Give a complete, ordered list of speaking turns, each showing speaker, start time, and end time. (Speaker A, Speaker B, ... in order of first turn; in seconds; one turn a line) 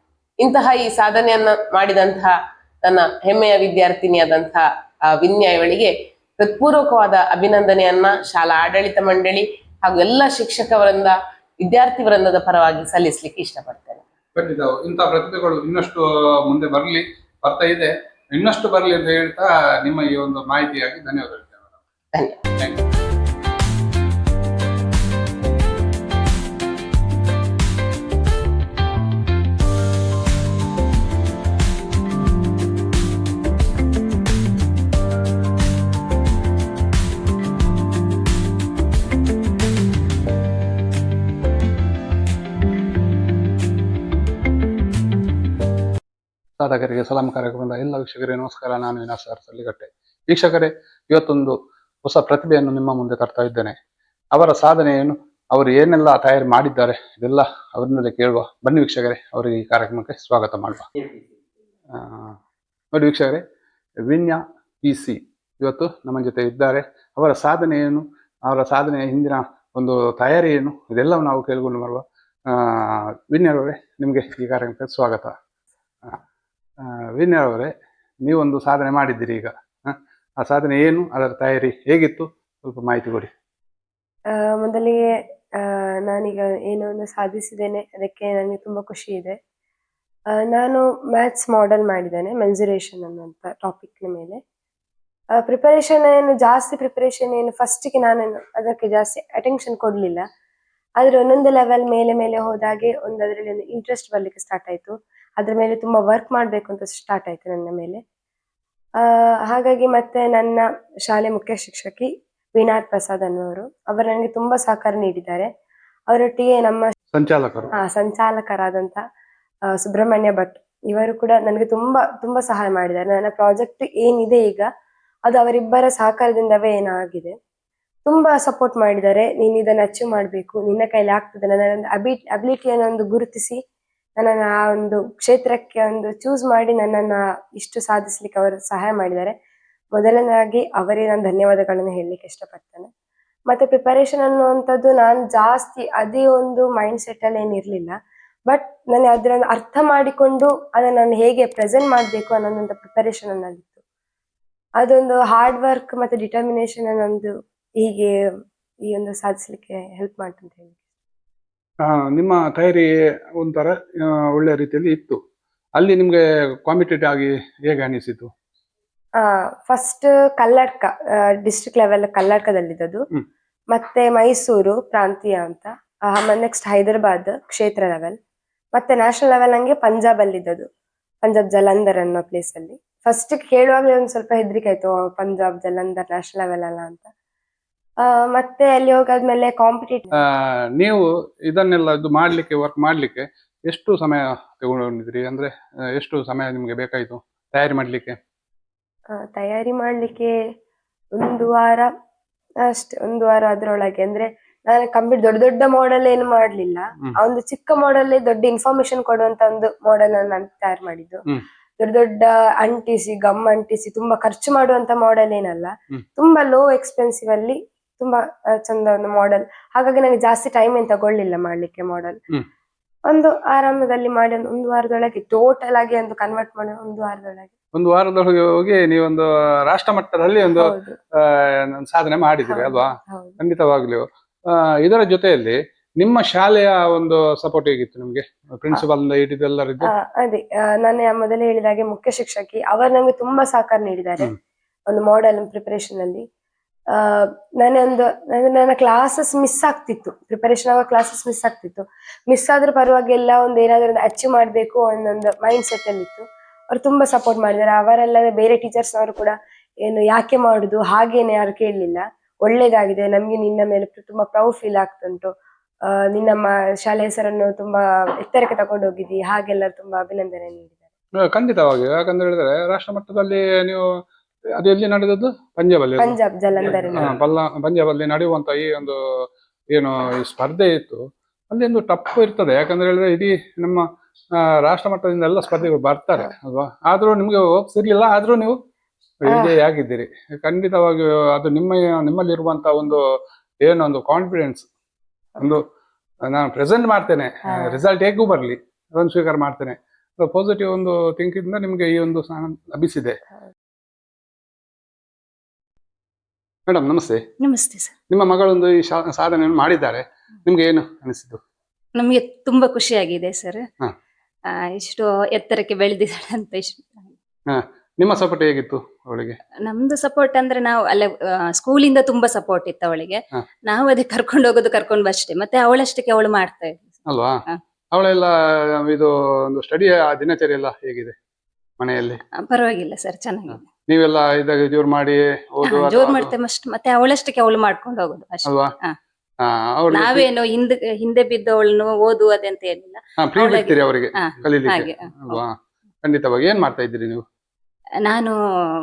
Speaker A: 0.4-14.0
Speaker B: 14.3-21.8
Speaker A: 22.1-22.4
Speaker B: 22.6-22.8
Speaker B: 46.6-53.7
Speaker B: 54.3-60.9
Speaker B: 61.9-62.3
Speaker B: 62.9-63.4
Speaker B: 64.0-75.3
Speaker B: 76.8-77.7
Speaker B: 78.2-83.3
Speaker C: 84.3-85.1
Speaker C: 85.6-89.4
Speaker C: 90.4-94.4
Speaker C: 95.4-100.2
Speaker C: 101.0-108.0
Speaker C: 109.0-115.5
Speaker C: 116.1-116.9
Speaker B: 117.1-117.7
Speaker C: 117.8-119.0
Speaker C: 119.8-124.7
Speaker C: 125.3-127.3
Speaker C: 128.1-133.6
Speaker C: 134.2-139.3
Speaker C: 139.9-142.9
Speaker C: 143.5-147.9
Speaker C: 148.5-153.8
Speaker C: 154.8-158.1
Speaker C: 158.9-160.8
Speaker B: 161.8-165.2
Speaker B: 165.8-168.3
Speaker C: 169.2-173.0
Speaker C: 173.7-178.2
Speaker C: 178.7-180.7
Speaker C: 181.2-187.1
Speaker C: 188.0-190.1
Speaker B: 190.2-198.2
Speaker C: 199.1-200.3
Speaker C: 201.1-201.9
Speaker C: 202.7-211.2
Speaker C: 211.8-222.2
Speaker C: 223.1-227.5
Speaker B: 227.7-239.9
Speaker C: 230.6-231.0
Speaker C: 232.5-233.4
Speaker C: 239.9-244.3
Speaker C: 244.9-246.2
Speaker C: 246.9-259.3
Speaker C: 259.8-265.3
Speaker C: 266.1-270.8
Speaker B: 271.2-273.8
Speaker B: 274.6-276.1
Speaker C: 276.0-277.1
Speaker B: 276.9-279.0
Speaker B: 279.7-283.9
Speaker B: 284.4-288.6
Speaker B: 289.2-293.0
Speaker B: 293.6-294.7
Speaker B: 296.2-303.2
Speaker B: 306.7-307.2
Speaker D: 307.4-307.9
Speaker B: 308.1-311.4
Speaker D: 311.9-313.6
Speaker D: 314.5-317.1
Speaker B: 317.5-319.4
Speaker D: 319.6-327.0
Speaker B: 327.1-327.4
Speaker B: 327.9-331.1
Speaker B: 331.8-332.2
Speaker D: 332.4-333.7
Speaker B: 333.9-336.3
Speaker D: 335.6-338.9
Speaker B: 338.4-338.7
Speaker B: 339.4-340.3
Speaker D: 339.9-345.4
Speaker B: 343.2-347.2
Speaker D: 348.0-348.3